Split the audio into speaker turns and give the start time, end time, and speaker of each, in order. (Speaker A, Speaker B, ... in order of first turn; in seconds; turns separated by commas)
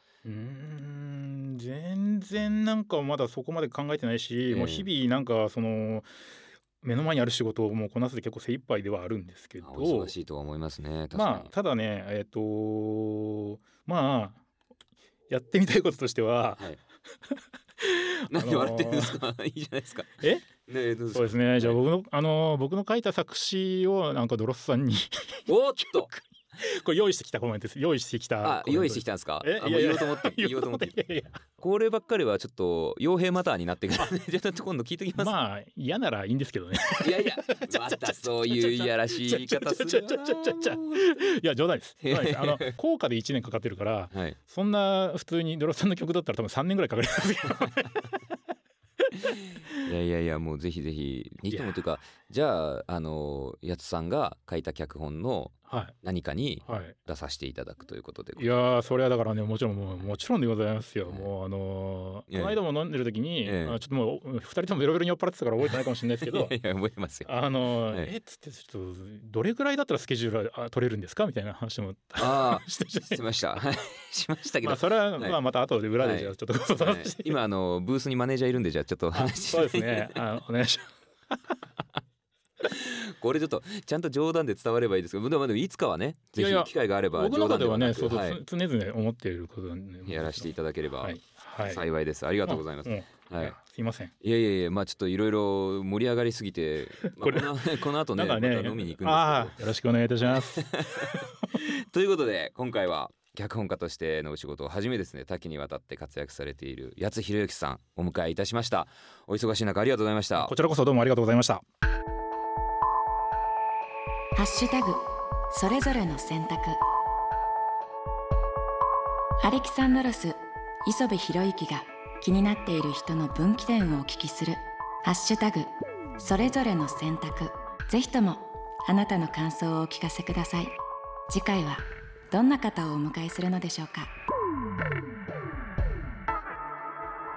Speaker A: 0.2-6.1, Speaker B: 4.5-4.9, Speaker A: 6.8-10.1, Speaker B: 9.6-11.5, Speaker A: 11.1-14.4, Speaker A: 15.3-19.2, Speaker B: 18.3-21.8, Speaker A: 20.2-20.5, Speaker A: 21.1-31.4, Speaker B: 25.5-26.1, Speaker B: 28.4-35.3, Speaker A: 35.2-48.2, Speaker B: 37.0-41.0, Speaker B: 42.0-42.7, Speaker B: 44.1-44.4, Speaker A: 49.1-49.9, Speaker B: 49.5-58.5, Speaker A: 51.5-51.8, Speaker A: 55.7-56.0, Speaker A: 56.6-56.9, Speaker A: 58.4-66.6, Speaker B: 61.1-61.3, Speaker B: 62.3-62.6, Speaker B: 63.4-63.8, Speaker B: 66.2-67.3, Speaker A: 67.3-73.2, Speaker B: 72.2-75.4, Speaker A: 74.6-77.3, Speaker B: 76.0-80.2, Speaker A: 79.1-81.4, Speaker B: 82.6-88.4, Speaker A: 86.4-91.8, Speaker B: 90.1-93.6, Speaker A: 92.5-94.1, Speaker B: 94.2-99.6, Speaker A: 97.0-101.3, Speaker B: 100.2-110.5, Speaker A: 110.4-111.6, Speaker C: 114.4-115.0, Speaker C: 115.5-116.8, Speaker C: 119.4-130.7, Speaker C: 131.3-134.1